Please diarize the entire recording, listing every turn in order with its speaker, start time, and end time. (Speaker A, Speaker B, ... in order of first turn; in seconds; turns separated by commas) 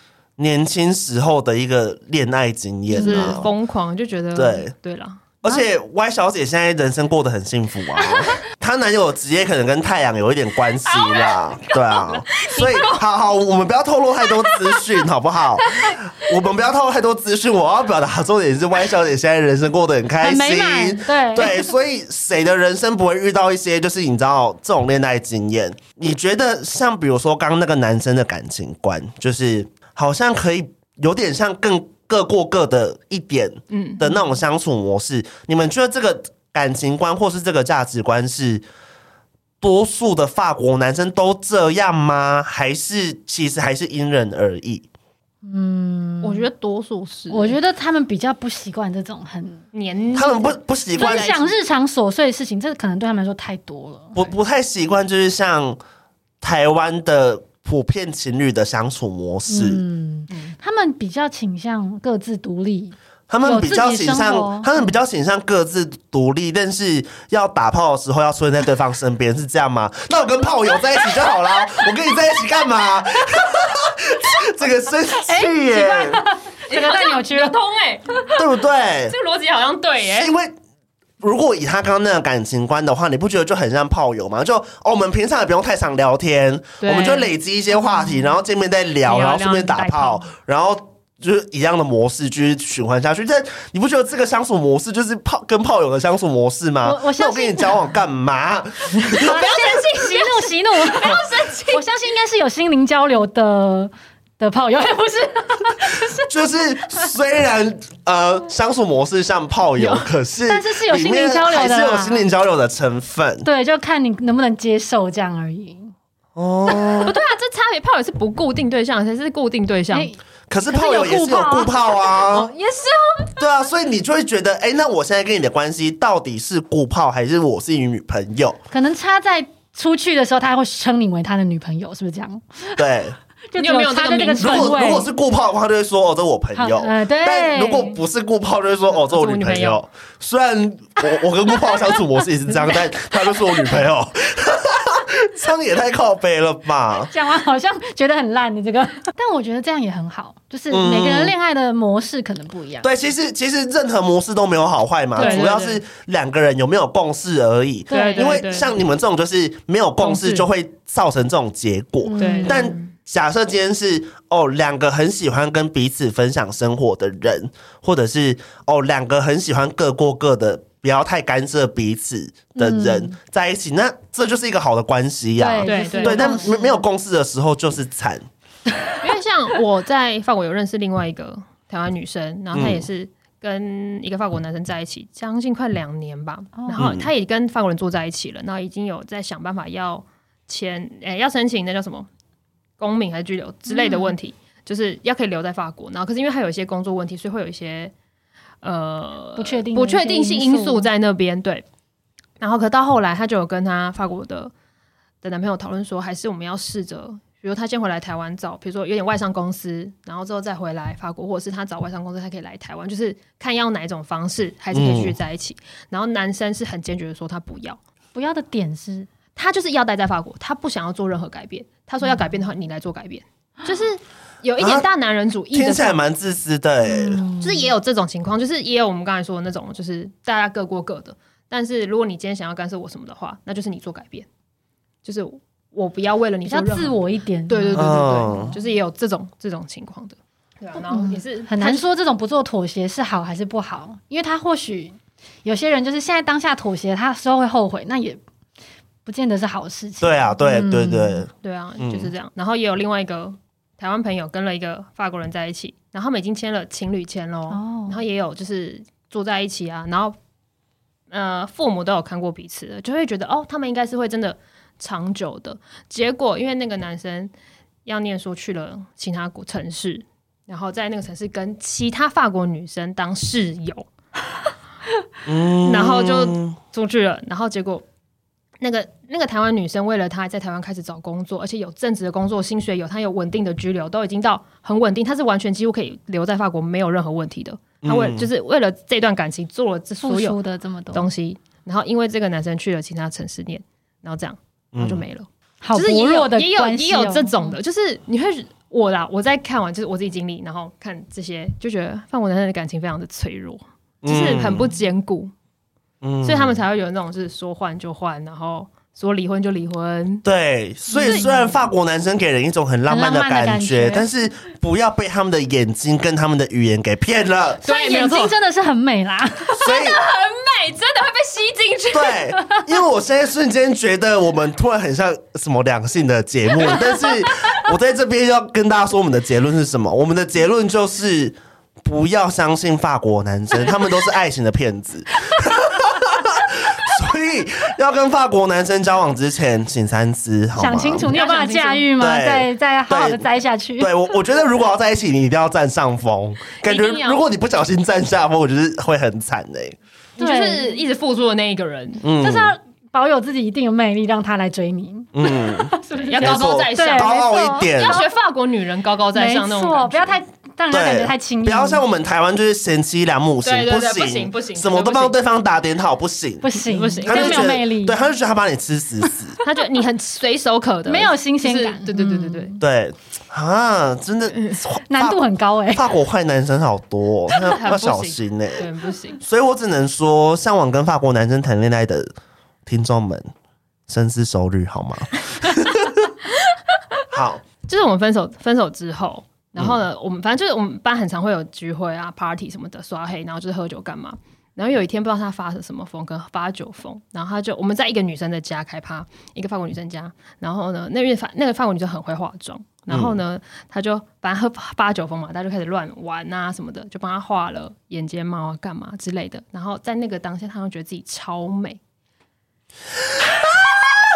Speaker A: 0.4-3.5, Speaker B: 2.9-3.4, Speaker C: 2.9-5.6, Speaker A: 4.3-4.7, Speaker A: 5.4-38.6, Speaker C: 10.8-13.0, Speaker C: 14.2-15.0, Speaker C: 15.6-16.4, Speaker B: 20.2-21.7, Speaker C: 33.7-34.2, Speaker A: 39.6-44.9, Speaker B: 45.4-46.5, Speaker C: 46.2-47.6, Speaker B: 47.3-49.6, Speaker C: 49.7-51.5, Speaker A: 50.1-51.3, Speaker B: 51.0-54.3, Speaker A: 54.1-55.8, Speaker A: 56.4-59.8, Speaker B: 59.5-64.7, Speaker A: 63.3-76.2, Speaker B: 75.2-77.6, Speaker C: 76.7-78.4, Speaker A: 78.4-79.2, Speaker C: 79.1-80.3, Speaker A: 80.2-80.5, Speaker A: 81.2-99.4, Speaker C: 86.8-87.3, Speaker C: 89.0-90.3, Speaker B: 96.8-97.8, Speaker B: 99.1-106.3, Speaker C: 99.1-101.8, Speaker A: 106.2-113.5, Speaker B: 109.8-112.2, Speaker B: 113.4-115.9, Speaker A: 116.4-117.2, Speaker C: 116.8-120.1, Speaker B: 119.9-122.8, Speaker A: 120.5-122.5, Speaker C: 122.3-122.8, Speaker A: 123.4-128.6, Speaker B: 128.7-132.8, Speaker A: 132.8-133.2, Speaker B: 133.5-135.1, Speaker C: 133.6-134.8, Speaker A: 134.4-147.1, Speaker B: 136.6-138.0, Speaker C: 139.1-139.8, Speaker B: 141.7-142.0, Speaker B: 142.6-143.8, Speaker B: 147.0-152.9, Speaker A: 150.7-151.3, Speaker A: 152.8-178.3, Speaker B: 155.2-155.5, Speaker C: 155.2-155.8, Speaker B: 157.9-158.4, Speaker C: 157.9-158.7, Speaker C: 160.1-160.4, Speaker B: 162.0-162.7, Speaker C: 162.2-162.9, Speaker B: 172.6-173.1, Speaker B: 175.4-176.8, Speaker C: 175.6-176.7, Speaker C: 179.0-192.1, Speaker A: 182.5-182.9, Speaker B: 186.6-186.9, Speaker A: 186.8-187.1, Speaker C: 192.8-197.9, Speaker B: 193.7-194.2, Speaker C: 198.6-201.6, Speaker B: 199.4-200.9, Speaker C: 202.4-204.5, Speaker C: 205.2-217.8, Speaker A: 214.7-215.2, Speaker B: 218.2-219.1, Speaker C: 219.4-226.0, Speaker A: 224.6-224.8, Speaker A: 225.5-227.2, Speaker B: 226.8-227.7, Speaker C: 227.4-234.3, Speaker C: 235.0-241.9, Speaker B: 236.4-238.6, Speaker A: 237.7-238.5, Speaker B: 240.9-248.2, Speaker B: 249.1-251.2, Speaker A: 250.0-252.1, Speaker C: 251.4-260.2, Speaker B: 257.5-258.0, Speaker C: 261.1-267.3, Speaker C: 267.9-273.9, Speaker A: 275.3-276.6, Speaker C: 275.6-277.9, Speaker C: 278.6-290.4, Speaker A: 287.8-288.3, Speaker B: 290.0-291.1, Speaker C: 290.9-305.3, Speaker A: 294.7-295.1, Speaker B: 295.6-297.5, Speaker A: 304.0-304.7, Speaker A: 306.0-306.6, Speaker C: 306.2-310.2, Speaker A: 310.2-317.6, Speaker C: 310.9-311.4, Speaker B: 311.0-311.3, Speaker B: 312.9-314.1, Speaker C: 317.6-318.4, Speaker B: 317.6-319.6, Speaker C: 319.5-322.3, Speaker A: 319.6-320.0, Speaker A: 321.9-341.1, Speaker B: 340.6-343.9, Speaker C: 341.1-341.9, Speaker A: 342.0-343.2, Speaker A: 343.8-349.8, Speaker C: 346.6-347.2, Speaker B: 350.2-350.8, Speaker C: 350.2-352.0, Speaker A: 352.0-352.5, Speaker B: 352.2-358.1, Speaker A: 355.1-358.1, Speaker C: 356.1-360.2, Speaker B: 359.1-361.8, Speaker A: 360.7-366.5, Speaker C: 363.4-365.1, Speaker B: 366.4-368.0, Speaker C: 366.6-367.6, Speaker A: 367.0-369.4, Speaker C: 369.4-372.6, Speaker B: 370.9-372.6, Speaker A: 372.6-378.7, Speaker B: 374.9-375.9, Speaker C: 377.3-379.2, Speaker A: 379.2-382.1, Speaker A: 382.7-383.3, Speaker A: 383.9-386.0, Speaker C: 386.3-386.6, Speaker A: 387.1-387.4, Speaker C: 387.6-411.8, Speaker A: 402.9-403.2, Speaker A: 413.4-414.0